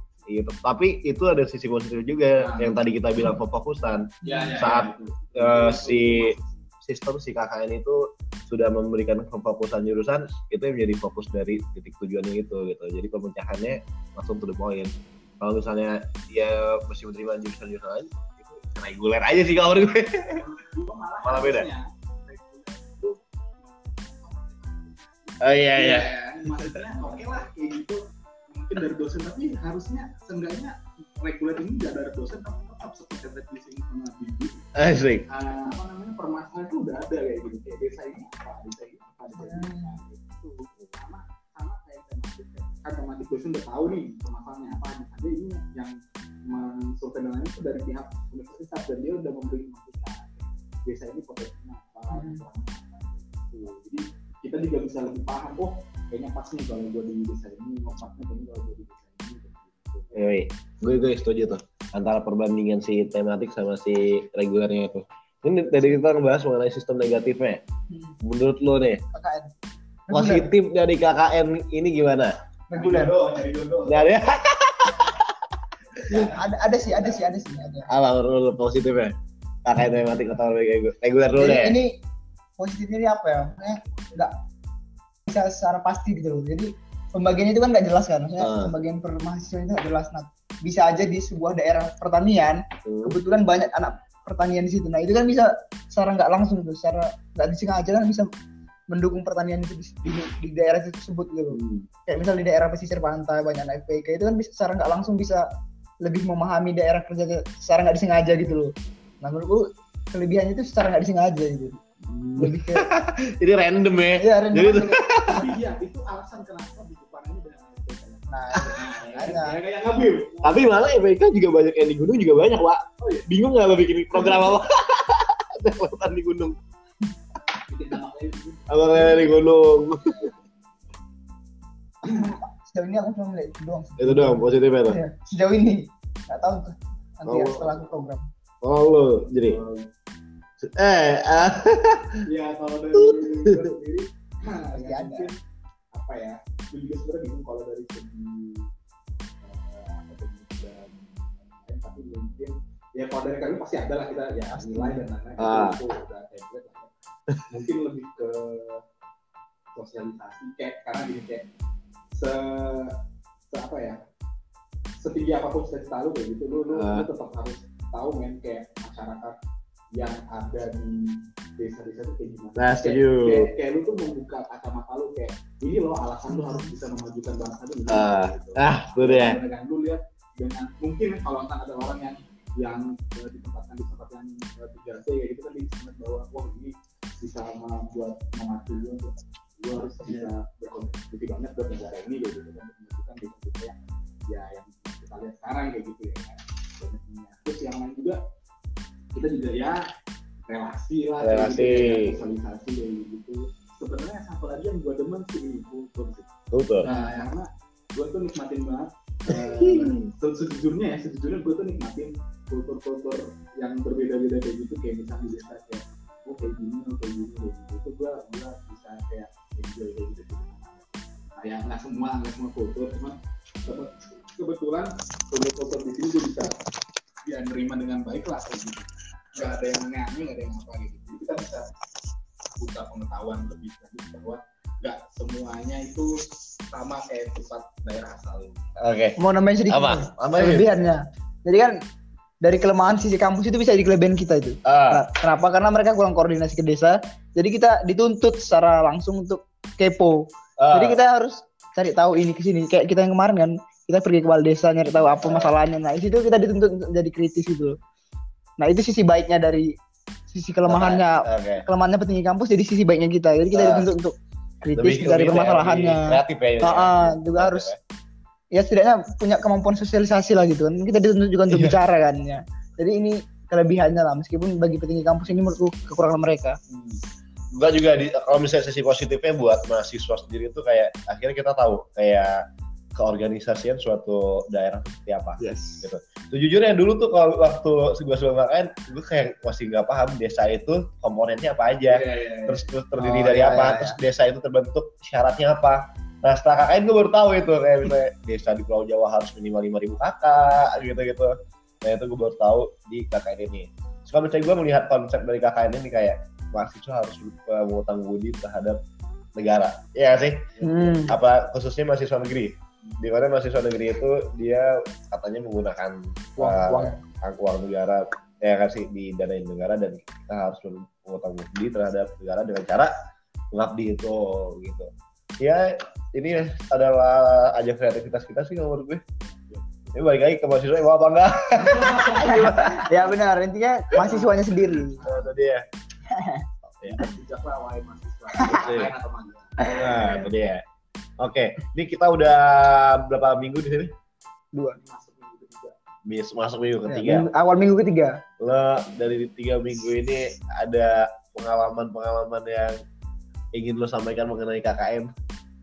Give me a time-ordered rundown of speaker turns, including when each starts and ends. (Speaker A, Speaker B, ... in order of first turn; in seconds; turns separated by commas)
Speaker A: 0.3-20.4, Speaker B: 2.4-2.8, Speaker C: 4.2-4.5, Speaker B: 4.2-6.5, Speaker B: 20.4-34.6, Speaker A: 21.2-21.7, Speaker A: 25.4-26.8, Speaker A: 34.8-35.2, Speaker B: 35.3-60.1, Speaker C: 39.4-39.9, Speaker C: 52.1-52.4, Speaker A: 60.1-67.6, Speaker A: 68.2-69.0, Speaker C: 69.1-69.5, Speaker C: 70.1-70.5, Speaker A: 70.1-72.3, Speaker C: 72.7-73.1, Speaker B: 72.7-74.0, Speaker A: 73.8-75.3, Speaker C: 76.0-77.9, Speaker B: 76.1-77.4, Speaker A: 77.9-81.8, Speaker C: 81.3-82.0, Speaker C: 82.6-84.3, Speaker C: 85.3-98.3, Speaker A: 88.4-88.7, Speaker A: 92.8-93.2, Speaker C: 98.9-105.5, Speaker A: 101.5-101.9, Speaker C: 106.0-111.8, Speaker A: 112.0-115.5, Speaker C: 112.4-112.9, Speaker C: 114.2-115.4, Speaker B: 115.1-120.7, Speaker C: 118.3-119.6, Speaker A: 120.4-126.5, Speaker B: 123.0-123.3, Speaker B: 127.7-129.3, Speaker A: 128.7-130.3, Speaker C: 132.0-138.2, Speaker A: 134.0-135.0, Speaker A: 137.3-137.7, Speaker A: 138.6-139.6, Speaker B: 139.5-139.9, Speaker A: 140.6-142.2, Speaker B: 142.2-145.4, Speaker A: 142.9-143.7, Speaker C: 144.7-145.3, Speaker B: 145.9-148.7, Speaker B: 149.4-156.9, Speaker C: 154.5-155.1, Speaker A: 155.4-155.8, Speaker B: 157.5-158.8, Speaker B: 159.7-161.4, Speaker B: 162.1-163.0, Speaker B: 163.5-164.0, Speaker B: 165.0-169.3, Speaker A: 166.7-167.1, Speaker B: 169.9-193.8, Speaker A: 172.6-173.5, Speaker C: 176.3-176.7, Speaker A: 177.9-179.4, Speaker B: 194.3-198.2, Speaker B: 199.1-199.8, Speaker B: 200.5-206.3, Speaker A: 201.2-202.2, Speaker A: 206.5-206.9, Speaker C: 206.8-207.3, Speaker B: 206.8-226.6, Speaker A: 209.3-209.9, Speaker B: 227.2-231.7, Speaker B: 232.6-238.6, Speaker A: 238.8-239.2, Speaker C: 239.2-241.8, Speaker A: 239.7-240.7, Speaker C: 242.4-257.8, Speaker A: 244.6-245.0, Speaker A: 250.6-251.0, Speaker A: 255.2-255.5, Speaker C: 258.6-259.7, Speaker C: 260.3-267.7, Speaker A: 260.7-261.6, Speaker A: 263.5-263.9, Speaker A: 264.8-267.8, Speaker C: 268.5-276.6, Speaker A: 271.5-271.8, Speaker B: 276.7-277.0, Speaker A: 277.5-282.4, Speaker A: 283.0-308.8, Speaker C: 285.4-285.9, Speaker B: 291.9-292.6, Speaker C: 293.0-294.0, Speaker A: 309.3-322.9, Speaker B: 310.6-311.0, Speaker C: 310.6-311.1, Speaker C: 316.4-317.0, Speaker A: 323.5-329.0, Speaker B: 329.2-329.9, Speaker A: 329.9-332.7, Speaker B: 331.5-333.0, Speaker C: 332.1-335.0, Speaker B: 334.0-335.3, Speaker A: 335.0-335.6, Speaker C: 336.1-336.4, Speaker B: 336.9-339.6, Speaker A: 338.4-338.9, Speaker A: 339.6-340.6, Speaker A: 341.2-343.9, Speaker B: 344.8-345.7, Speaker A: 346.1-347.2, Speaker C: 346.9-348.2, Speaker A: 348.4-352.8, Speaker A: 353.5-355.1